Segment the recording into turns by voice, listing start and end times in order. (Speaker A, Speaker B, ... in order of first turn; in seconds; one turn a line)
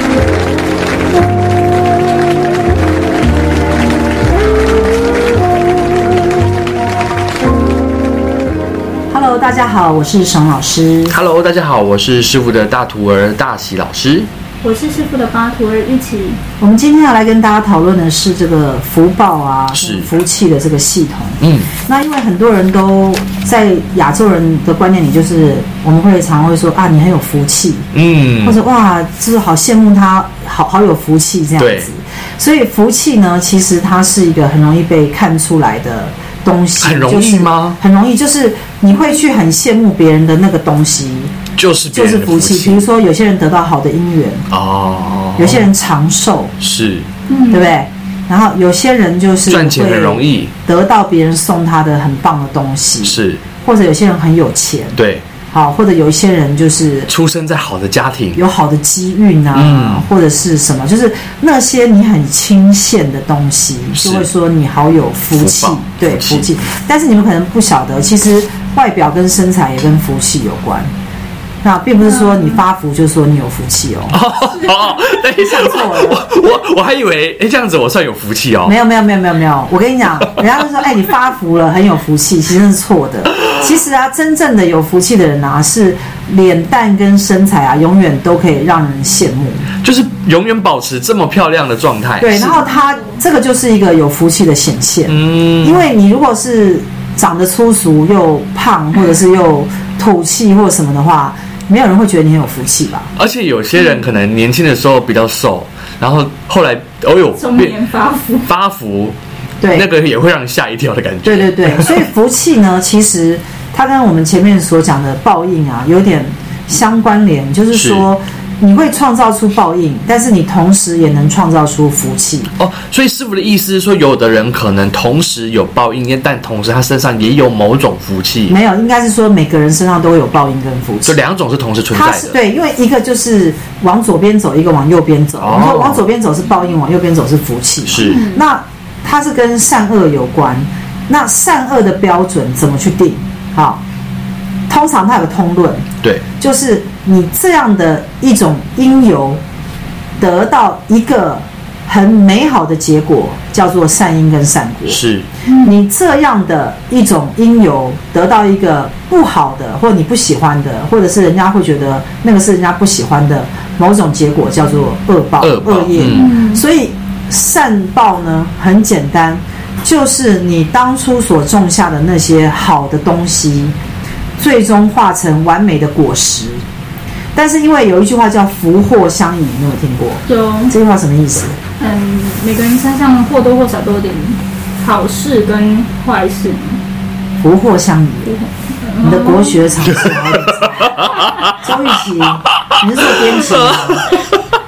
Speaker A: 9.1-11.1
Speaker B: 11.1-14.3
Speaker C: 14.6-16.4
Speaker A: 16.6-27.9
Speaker B: 19.7-20.1
Speaker B: 21.4-21.7
Speaker B: 27.9-28.6
Speaker A: 28.4-41.3
Speaker B: 31.6-31.9
Speaker B: 36.8-37.8
Speaker B: 41.5-42.9
Speaker A: 41.9-44.5
Speaker B: 44.5-45.7
Speaker A: 45.4-46.5
Speaker B: 46.6-47.1
Speaker C: 47.3-47.7
Speaker A: 47.5-55.0
Speaker B: 49.5-50.5
Speaker B: 53.0-53.4
Speaker B: 55.0-55.2
Speaker A: 55.5-57.1
Speaker B: 57.1-58.4
Speaker A: 58.3-70.9
Speaker B: 59.5-60.0
Speaker B: 63.9-64.3
Speaker B: 65.4-66.5
Speaker A: 71.6-74.2
Speaker C: 72.0-72.6
Speaker B: 74.1-78.8
Speaker A: 75.4-76.2
Speaker A: 78.7-89.7
Speaker B: 89.8-92.7
Speaker A: 92.2-103.1
Speaker B: 95.1-95.8
Speaker B: 103.2-107.8
Speaker C: 107.4-108.5
Speaker B: 108.4-109.2
Speaker A: 109.6-109.8
Speaker B: 109.7-112.0
Speaker A: 111.2-122.5
Speaker B: 117.7-118.0
Speaker B: 122.6-128.5
Speaker A: 128.5-131.2
Speaker B: 131.1-132.4
Speaker A: 131.9-143.8
Speaker B: 135.4-136.0
Speaker B: 137.8-138.3
Speaker C: 138.0-138.4
Speaker A: 144.7-145.9
Speaker A: 146.4-149.4
Speaker A: 150.2-173.7
Speaker B: 154.9-155.3
Speaker B: 165.4-166.3
Speaker C: 166.1-166.6
Speaker A: 174.4-176.6
Speaker A: 177.3-181.6
Speaker C: 180.2-180.7
Speaker C: 181.8-186.8
Speaker A: 187.4-188.3
Speaker C: 188.3-189.7
Speaker A: 189.0-194.1
Speaker B: 189.9-191.5
Speaker B: 192.7-194.2